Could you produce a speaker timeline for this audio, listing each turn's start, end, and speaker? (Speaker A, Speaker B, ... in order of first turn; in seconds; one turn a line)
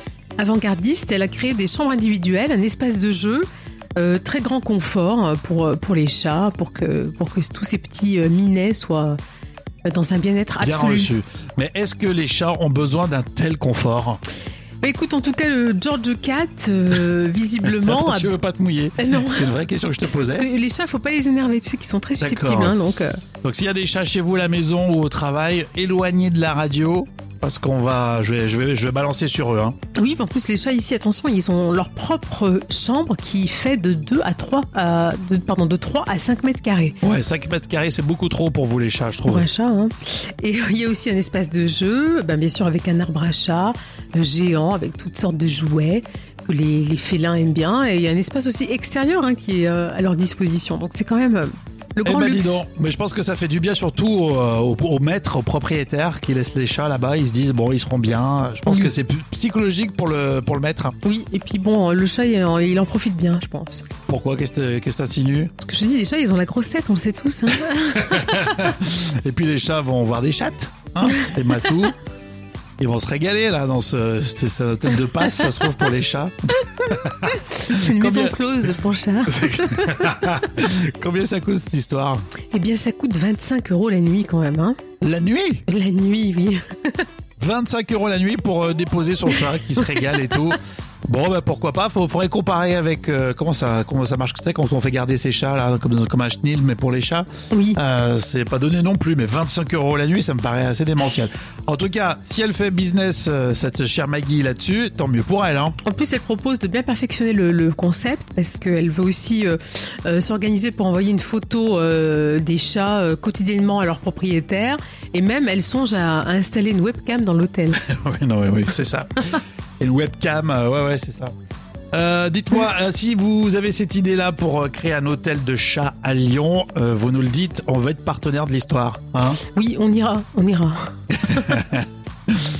Speaker A: 0.4-3.5
Speaker A: 4.0-9.2
Speaker A: 9.8-11.1
Speaker B: 10.6-14.2
Speaker A: 14.8-18.3
Speaker B: 17.8-20.4
Speaker A: 19.0-19.5
Speaker A: 20.1-23.2
Speaker B: 22.2-22.8
Speaker B: 23.4-29.8
Speaker A: 29.9-37.0
Speaker B: 37.0-39.5
Speaker A: 39.3-52.6
Speaker B: 52.0-61.0
Speaker A: 61.0-63.9
Speaker B: 64.1-65.5
Speaker A: 65.6-68.3
Speaker B: 68.0-71.9
Speaker B: 72.8-78.3
Speaker A: 77.5-80.1
Speaker B: 79.3-82.2
Speaker A: 82.5-84.8
Speaker B: 85.0-85.6
Speaker A: 85.7-87.1
Speaker B: 87.4-105.8
Speaker A: 97.5-97.8
Speaker A: 105.8-117.8
Speaker B: 117.8-121.3
Speaker B: 121.9-129.4
Speaker A: 129.5-130.9
Speaker B: 131.1-132.4